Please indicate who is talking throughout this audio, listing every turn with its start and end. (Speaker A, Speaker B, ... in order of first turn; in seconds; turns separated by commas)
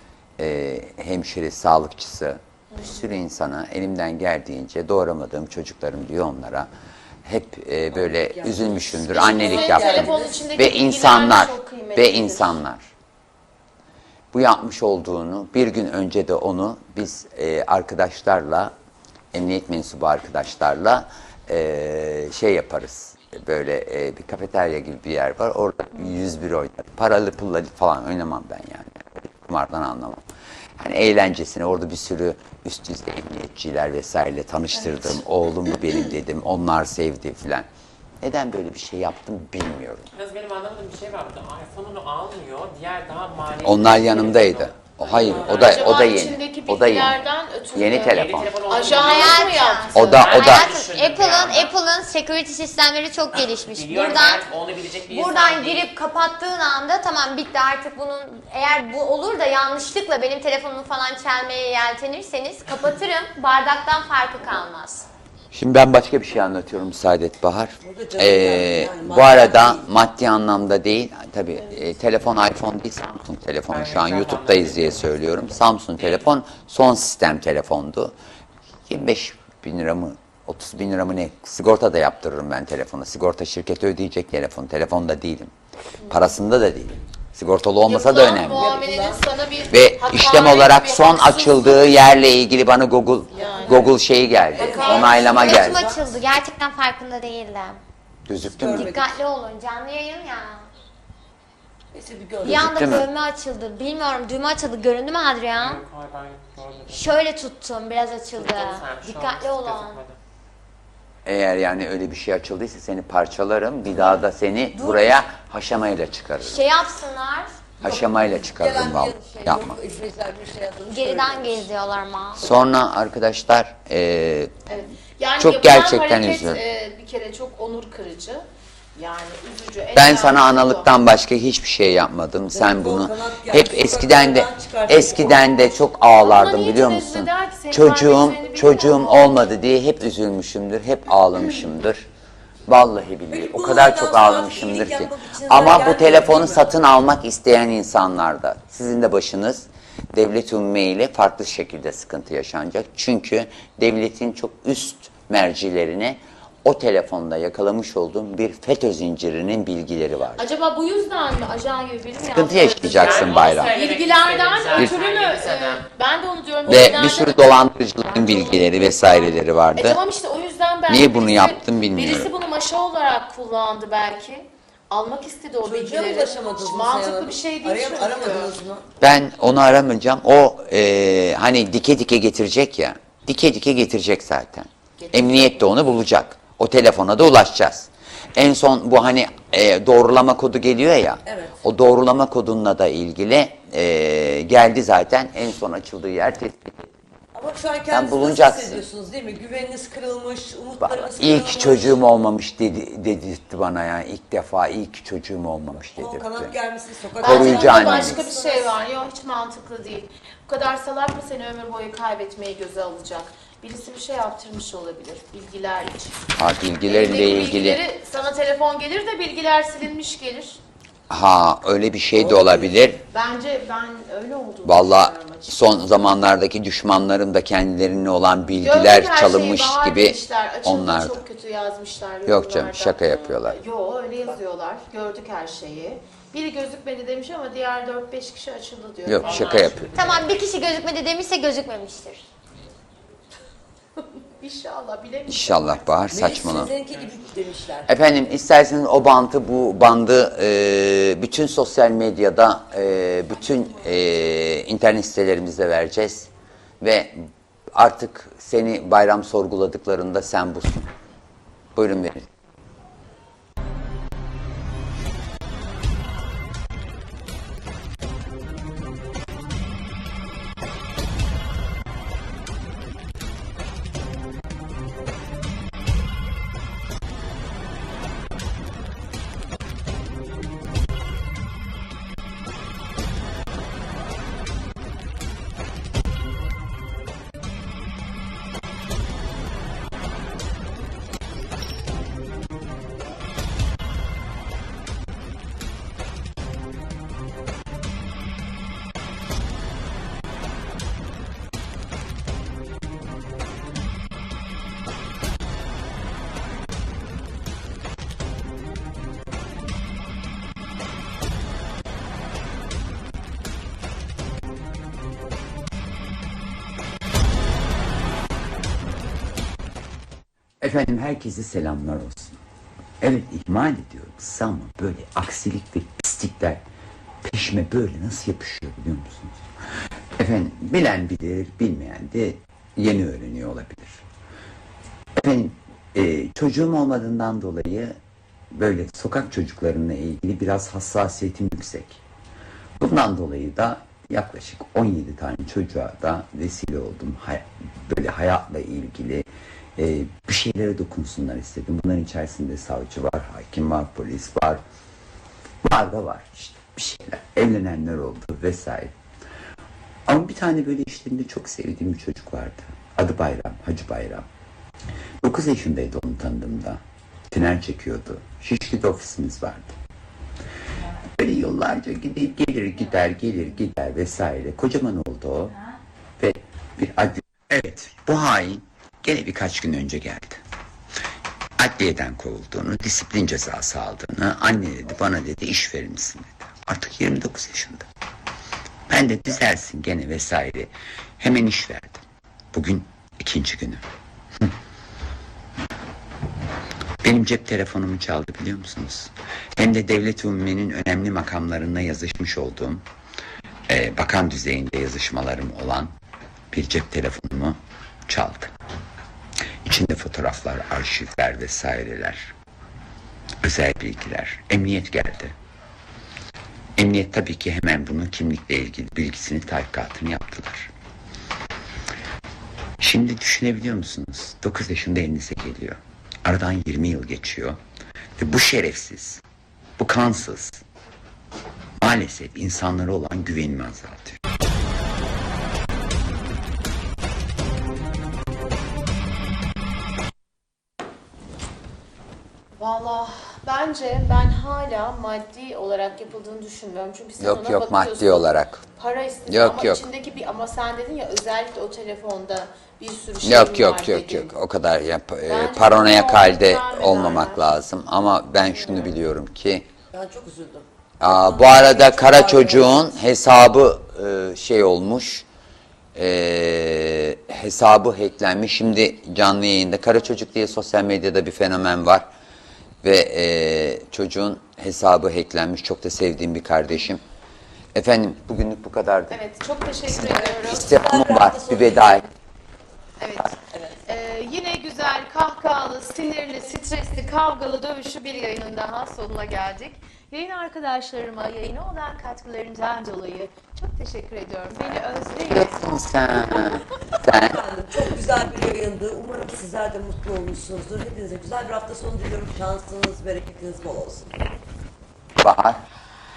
Speaker A: 0.4-6.7, Speaker A: 7.2-12.9, Speaker B: 7.9-10.4, Speaker C: 9.1-12.6, Speaker A: 14.3-18.7, Speaker A: 19.3-30.2, Speaker A: 30.8-37.7, Speaker A: 38.2-40.1, Speaker D: 40.1-45.9, Speaker A: 43.6-48.6, Speaker B: 45.1-45.6, Speaker C: 45.5-50.2, Speaker D: 48.0-49.4, Speaker E: 48.9-54.5, Speaker A: 49.9-50.7, Speaker D: 50.0-51.8, Speaker D: 53.3-55.9, Speaker E: 55.1-65.1, Speaker A: 65.5-78.1, Speaker B: 67.8-69.9, Speaker D: 73.7-75.2, Speaker A: 78.9-85.5, Speaker A: 86.1-88.8, Speaker C: 87.9-92.0, Speaker B: 88.5-89.2, Speaker A: 89.6-95.8, Speaker C: 93.3-93.9, Speaker B: 93.4-93.9, Speaker B: 94.5-96.1, Speaker C: 94.5-95.1, Speaker E: 94.9-97.8, Speaker A: 98.2-99.0, Speaker B: 98.4-99.1, Speaker E: 98.7-100.7, Speaker B: 101.9-103.0, Speaker E: 102.4-105.8, Speaker A: 102.4-103.1, Speaker D: 105.5-107.1, Speaker E: 106.8-110.0, Speaker D: 108.3-110.2, Speaker A: 111.2-116.7, Speaker B: 114.8-115.1, Speaker E: 116.4-117.5, Speaker A: 117.8-119.7, Speaker B: 117.8-121.7, Speaker E: 120.9-122.4, Speaker A: 122.4-124.7, Speaker C: 124.7-128.4, Speaker A: 125.4-126.6, Speaker C: 128.9-130.9, Speaker A: 129.9-142.1, Speaker B: 132.5-135.8, Speaker C: 136.1-139.5, Speaker A: 142.7-160.4, Speaker B: 143.3-146.8, Speaker C: 160.4-178.5, Speaker A: 162.3-163.8, Speaker D: 162.8-165.9, Speaker A: 166.7-170.0, Speaker B: 166.7-167.0, Speaker A: 170.9-172.3, Speaker B: 175.6-178.9, Speaker A: 179.0-196.9, Speaker C: 185.0-185.6, Speaker B: 191.2-191.6, Speaker B: 197.3-202.0, Speaker A: 197.9-198.8, Speaker A: 200.8-206.5, Speaker B: 206.0-208.7, Speaker C: 207.2-216.2, Speaker A: 207.2-208.2, Speaker A: 216.3-217.8, Speaker C: 216.8-220.6, Speaker A: 221.1-223.0, Speaker B: 222.1-222.9, Speaker C: 223.1-225.6, Speaker A: 224.6-231.2, Speaker C: 228.6-239.8, Speaker A: 232.2-233.6, Speaker A: 239.1-239.9, Speaker D: 239.2-240.3, Speaker E: 239.9-242.2, Speaker C: 244.3-245.8, Speaker A: 245.3-246.7, Speaker B: 246.1-247.9, Speaker A: 247.9-256.3, Speaker A: 256.8-260.9, Speaker A: 261.8-262.3, Speaker A: 320.6-322.4, Speaker A: 323.0-326.6, Speaker A: 327.2-329.4, Speaker A: 330.2-334.0, Speaker A: 335.2-338.0, Speaker A: 338.5-342.0, Speaker A: 342.8-354.6, Speaker A: 355.6-359.0, Speaker A: 360.1-364.3, Speaker A: 365.2-369.7, Speaker A: 371.0-375.6, Speaker A: 376.2-380.4, Speaker A: 381.6-387.9, Speaker A: 388.9-393.8, Speaker A: 397.0-402.8, Speaker A: 403.7-405.9, Speaker A: 406.5-408.5, Speaker A: 409.6-412.3, Speaker A: 413.4-415.3, Speaker A: 416.8-420.7, Speaker A: 422.8-427.6, Speaker A: 428.2-429.2, Speaker A: 429.8-430.6, Speaker A: 431.8-434.2, Speaker C: 442.6-454.3, Speaker A: 447.2-448.6, Speaker A: 449.3-449.9, Speaker A: 453.2-459.7, Speaker C: 455.2-457.5, Speaker B: 459.9-462.9, Speaker A: 461.0-465.2, Speaker A: 465.9-472.1, Speaker A: 472.8-477.0, Speaker A: 477.7-479.2, Speaker C: 479.1-480.7, Speaker B: 479.9-482.1, Speaker A: 480.4-482.1, Speaker C: 483.0-495.5, Speaker B: 483.5-483.8, Speaker A: 494.7-497.4, Speaker C: 496.3-496.6, Speaker B: 497.1-504.1, Speaker A: 505.2-505.6